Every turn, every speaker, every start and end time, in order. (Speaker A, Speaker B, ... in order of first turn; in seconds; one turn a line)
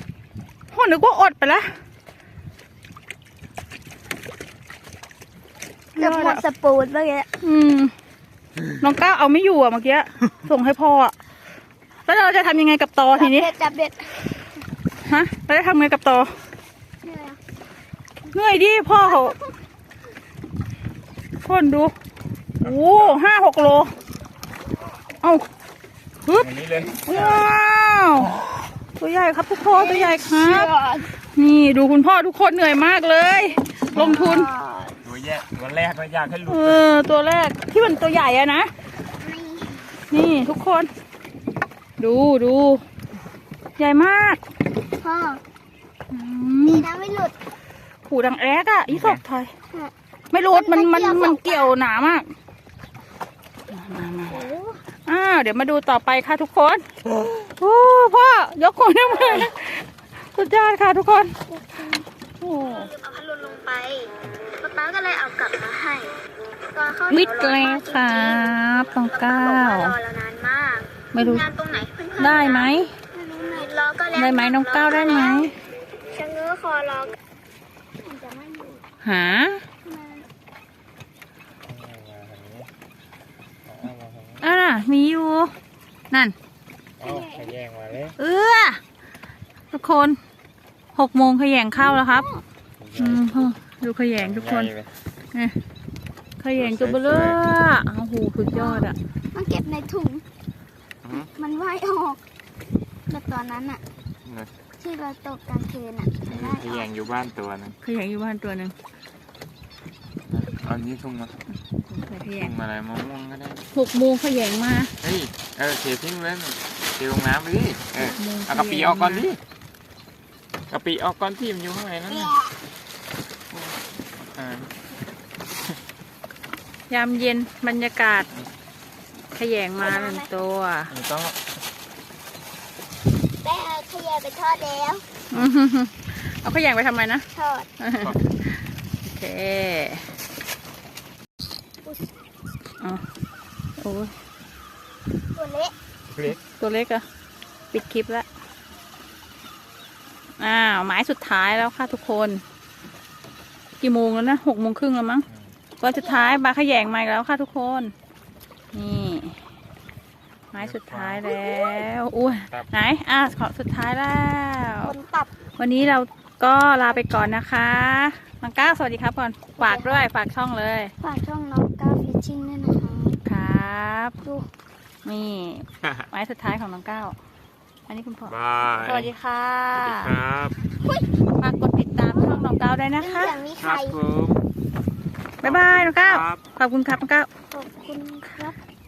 Speaker A: 0.7-1.7
Speaker A: 6.0-6.4
Speaker B: 6.0-7.3
Speaker A: 7.4-7.9
Speaker A: 8.7-11.1
Speaker A: 12.1-13.5
Speaker B: 13.2-14.3
Speaker A: 15.0-16.3
Speaker B: 17.0-17.4
Speaker A: 18.3-19.4
Speaker B: 19.0-19.5
Speaker A: 21.4-21.9
Speaker A: 22.6-23.9
Speaker C: 26.3-27.5
Speaker A: 27.1-28.4
Speaker A: 29.0-30.7
Speaker B: 29.7-31.1
Speaker A: 31.3-34.5
Speaker B: 33.9-35.0
Speaker C: 35.0-36.8
Speaker A: 36.5-38.7
Speaker B: 39.2-39.9
Speaker A: 40.1-40.9
Speaker A: 42.0-42.8
Speaker A: 43.8-44.4
Speaker B: 45.0-45.4
Speaker A: 46.1-46.9
Speaker B: 46.6-47.3
Speaker A: 48.1-49.5
Speaker C: 48.9-49.2
Speaker B: 49.7-51.7
Speaker A: 50.3-52.3
Speaker A: 53.7-54.4
Speaker B: 54.3-54.8
Speaker A: 55.1-61.4
Speaker B: 61.5-62.1
Speaker A: 62.4-62.9
Speaker B: 62.6-75.5
Speaker A: 67.1-70.0
Speaker A: 71.1-71.5
Speaker A: 72.2-72.9
Speaker A: 74.1-75.5
Speaker B: 76.0-77.1
Speaker B: 78.0-78.8
Speaker A: 79.0-79.6
Speaker B: 79.8-80.3
Speaker C: 81.7-82.7
Speaker C: 83.7-84.5
Speaker A: 84.4-85.5
Speaker C: 87.0-88.1
Speaker B: 87.0-87.5
Speaker A: 88.2-88.8
Speaker A: 89.7-90.2
Speaker A: 91.0-92.2
Speaker B: 91.7-92.4
Speaker C: 92.8-93.5
Speaker A: 93.0-94.7
Speaker C: 94.2-94.9
Speaker A: 96.4-99.0
Speaker C: 96.6-97.4
Speaker B: 98.5-100.2
Speaker C: 101.0-101.3
Speaker B: 101.1-102.2
Speaker B: 103.1-103.8
Speaker C: 104.2-104.5
Speaker B: 104.8-106.9
Speaker C: 106.3-107.8
Speaker A: 107.8-108.7
Speaker C: 110.3-111.4
Speaker A: 111.8-112.5
Speaker C: 112.4-113.6
Speaker A: 113.7-114.9
Speaker C: 115.0-119.4
Speaker A: 118.0-119.3
Speaker C: 120.7-122.4
Speaker B: 122.1-122.5
Speaker C: 123.5-124.7
Speaker A: 126.9-128.3
Speaker A: 129.3-130.9
Speaker B: 129.8-130.3
Speaker C: 130.9-131.4
Speaker B: 133.4-135.1
Speaker A: 135.3-137.2
Speaker B: 137.3-137.7
Speaker A: 137.8-138.2
Speaker A: 139.0-140.1
Speaker B: 141.8-142.1
Speaker A: 143.8-144.1
Speaker B: 145.3-145.7
Speaker C: 146.1-146.4
Speaker A: 146.4-147.0
Speaker A: 147.7-148.3
Speaker A: 150.4-152.4
Speaker A: 153.8-155.2
Speaker A: 155.8-157.9
Speaker B: 155.9-156.4
Speaker A: 158.7-159.4
Speaker A: 160.5-164.9
Speaker C: 160.6-161.3
Speaker B: 161.2-161.8
Speaker C: 162.4-162.8
Speaker B: 164.8-165.3
Speaker A: 165.6-170.9
Speaker B: 169.6-170.1
Speaker B: 171.0-173.2
Speaker A: 173.2-174.2
Speaker A: 175.1-177.2
Speaker A: 177.9-180.1
Speaker C: 178.3-179.1
Speaker C: 179.8-180.6
Speaker A: 181.4-183.4
Speaker B: 182.1-182.4
Speaker B: 183.0-184.0
Speaker C: 183.6-184.4
Speaker A: 185.4-187.3
Speaker C: 185.4-186.4
Speaker B: 187.5-188.6